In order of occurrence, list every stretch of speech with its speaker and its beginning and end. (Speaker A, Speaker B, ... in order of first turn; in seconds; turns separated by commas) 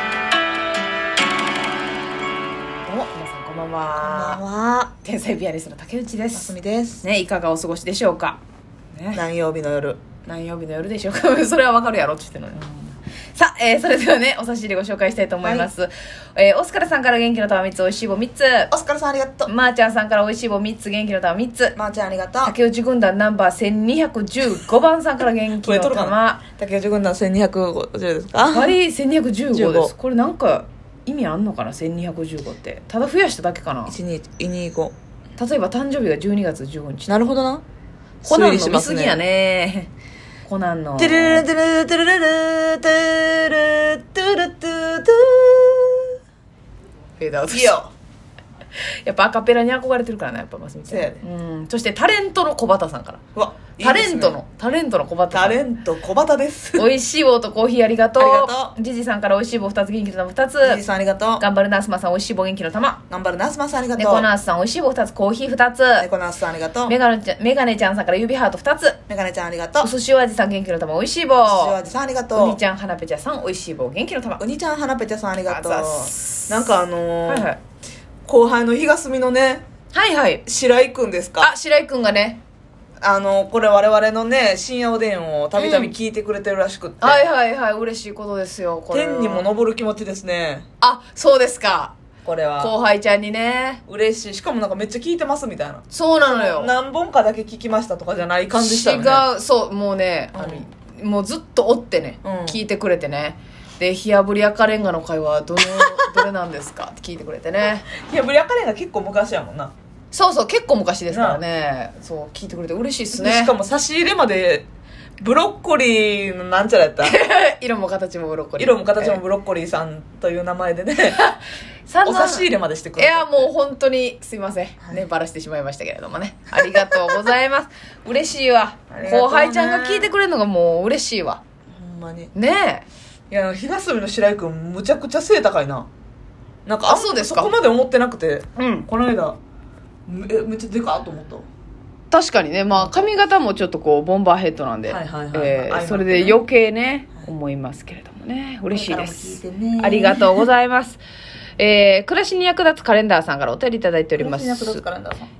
Speaker A: 2.8-4.4, Speaker B: 4.0-4.9, Speaker A: 5.0-8.4, Speaker B: 6.3-7.0, Speaker A: 8.9-9.2, Speaker B: 9.1-10.0, Speaker A: 10.2-12.8, Speaker A: 13.3-18.7, Speaker B: 15.4-15.7, Speaker B: 18.7-19.5, Speaker A: 19.4-21.8, Speaker B: 21.8-22.5, Speaker A: 22.4-26.4, Speaker B: 25.6-28.8, Speaker A: 28.5-34.0, Speaker B: 29.5-29.9, Speaker B: 33.9-34.9, Speaker A: 35.4-37.1, Speaker B: 37.1-37.6, Speaker B: 38.2-39.2, Speaker A: 38.2-39.9, Speaker A: 40.5-41.5, Speaker B: 41.0-46.1, Speaker A: 47.2-47.8, Speaker B: 47.5-47.9, Speaker A: 49.0-53.2, Speaker B: 50.9-51.2, Speaker B: 53.3-54.4, Speaker A: 53.8-55.6, Speaker B: 55.3-56.9, Speaker A: 56.8-60.8, Speaker B: 58.1-58.7, Speaker B: 60.6-61.4, Speaker A: 61.4-63.0, Speaker B: 63.1-64.3, Speaker A: 64.0-66.1, Speaker B: 66.0-67.0, Speaker A: 66.9-69.0, Speaker B: 69.1-69.9, Speaker A: 69.8-71.8, Speaker B: 71.4-72.6, Speaker A: 72.3-74.4, Speaker B: 74.4-77.5, Speaker A: 75.5-76.7, Speaker A: 77.3-77.6, Speaker B: 78.2-79.6, Speaker A: 79.9-80.4, Speaker B: 80.5-81.5, Speaker A: 81.4-82.4, Speaker B: 83.0-87.2, Speaker A: 85.6-85.9, Speaker A: 87.0-89.5, Speaker B: 88.9-90.6, Speaker A: 90.8-91.9, Speaker B: 92.2-92.7, Speaker A: 92.6-93.8, Speaker B: 93.9-99.2, Speaker A: 95.9-96.7, Speaker A: 98.5-107.8, Speaker B: 100.3-100.7, Speaker B: 102.2-102.6, Speaker B: 107.9-109.7, Speaker A: 110.1-113.5, Speaker B: 111.1-111.4, Speaker B: 113.1-114.7, Speaker B: 115.2-117.2, Speaker A: 117.0-119.2, Speaker B: 118.6-121.3, Speaker A: 121.8-122.5, Speaker B: 122.0-123.5, Speaker A: 123.0-131.4, Speaker B: 126.6-127.3, Speaker B: 128.9-130.1, Speaker B: 131.7-132.3, Speaker A: 132.3-132.8, Speaker B: 133.3-135.9, Speaker B: 136.7-139.4, Speaker A: 136.8-137.5, Speaker A: 138.6-138.9, Speaker B: 140.1-141.5, Speaker A: 142.1-151.0, Speaker B: 144.9-146.4, Speaker B: 148.7-150.5, Speaker A: 151.6-154.8, Speaker B: 154.2-155.3